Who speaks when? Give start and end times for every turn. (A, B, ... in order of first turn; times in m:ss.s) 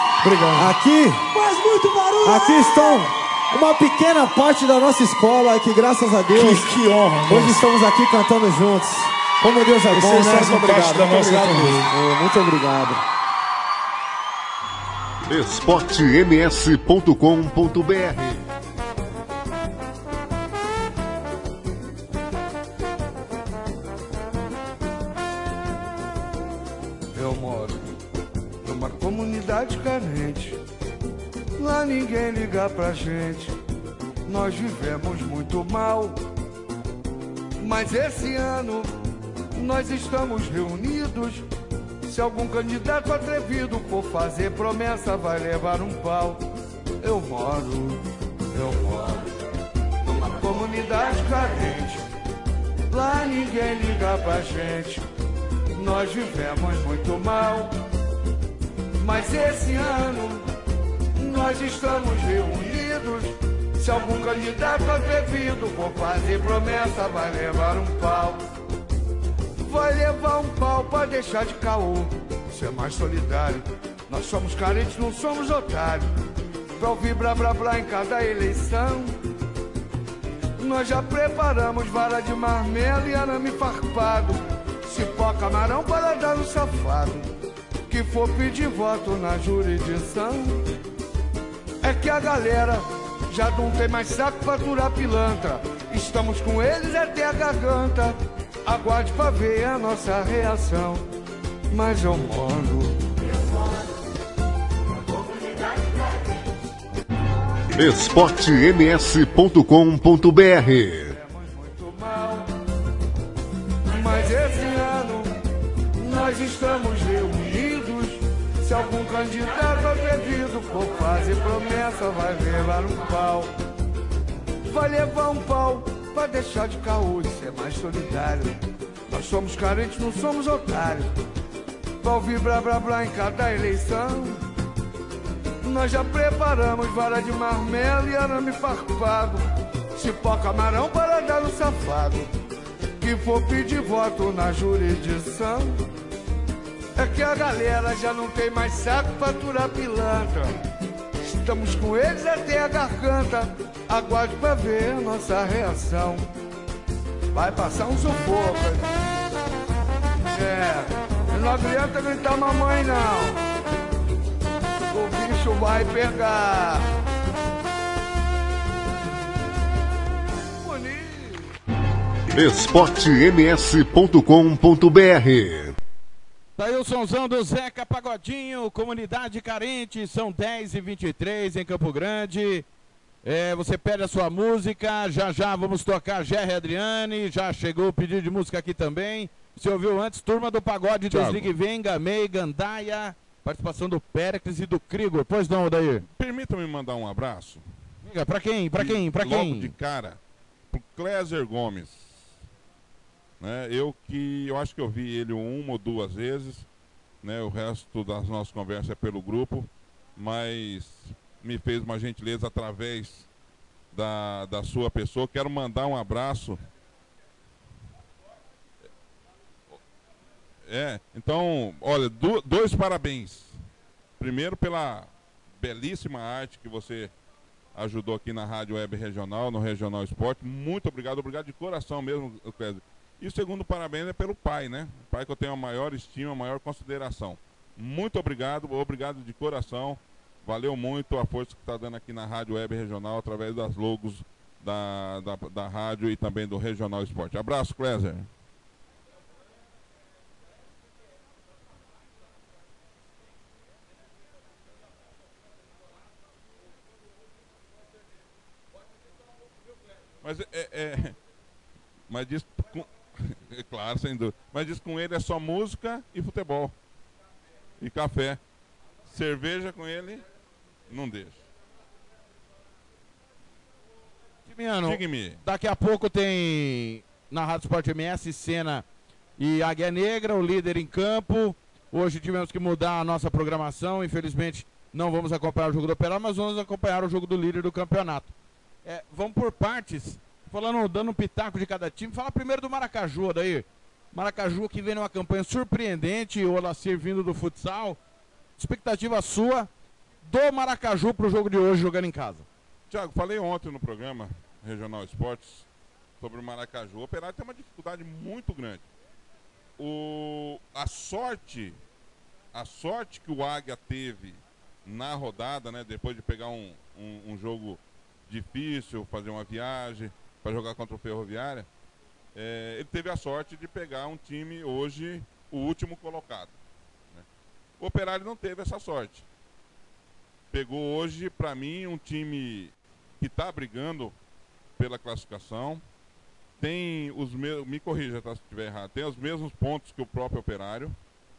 0:00.2-0:00.7 A
0:00.5-0:01.2 B
0:02.2-0:06.7 B
0:02.2-0:02.5 A
0:06.3-0:07.6 A
0:07.3-0:13.0 B
0:09.9-0:11.9 A
0:15.2-0:18.4 C
0:27.1-0:27.9 D
0:28.6-0:30.6 D
0:31.6-0:33.5 D
0:34.2-0:36.2 D
0:37.6-0:38.9 D
0:39.5-0:41.4 D
0:42.0-0:46.4 D
0:47.0-0:49.3 D
0:50.0-0:52.0 D
0:52.9-0:55.0 D
0:55.7-0:57.8 D
0:59.0-1:00.4 D
1:01.1-1:08.4 D
1:09.6-1:16.1 D
1:16.8-1:19.2 D
1:20.6-1:27.3 D
1:27.9-1:30.6 D
1:31.8-1:41.0 D
1:41.7-1:43.0 D
1:47.7-1:51.1 C
1:51.1-1:52.5 D
1:53.9-1:55.4 D
1:56.0-2:03.5 D
2:04.7-2:11.1 D
2:12.0-2:14.4 D
2:15.6-2:22.3 D
2:23.0-2:25.8 D
2:27.0-2:30.6 D
2:31.2-2:36.3 D
2:37.3-2:38.9 D
2:40.3-2:43.4 D
2:44.9-2:46.9 D
2:50.6-2:51.5 D
2:52.3-2:55.8 C
2:56.6-3:02.7 E
3:03.2-3:16.0 E
3:11.1-3:11.5 F
3:16.0-3:17.6 F
3:18.0-3:19.7 E
3:18.8-3:20.2 F
3:20.7-3:22.4 F
3:23.4-3:26.7 F
3:27.2-3:33.3 F
3:33.9-3:36.6 F
3:40.6-3:43.6 F
3:44.2-3:47.1 F
3:47.7-4:08.3 F
4:20.2-4:21.2 F
4:22.1-4:26.7 F
4:27.8-4:28.4 F
4:29.0-4:30.2 F
4:30.9-4:31.4 F
4:34.5-4:38.8 E
4:34.8-4:35.4 F
4:39.4-4:48.3 E
4:48.8-4:58.0 E
4:58.6-4:59.7 E
5:00.2-5:02.4 E
5:02.9-5:05.7 F
5:06.2-5:08.9 F
5:09.8-5:11.8 F
5:12.5-5:21.7 F
5:22.3-5:26.6 F
5:27.8-5:29.3 F
5:30.5-5:34.1 F
5:34.8-5:35.8 F
5:36.6-5:41.0 F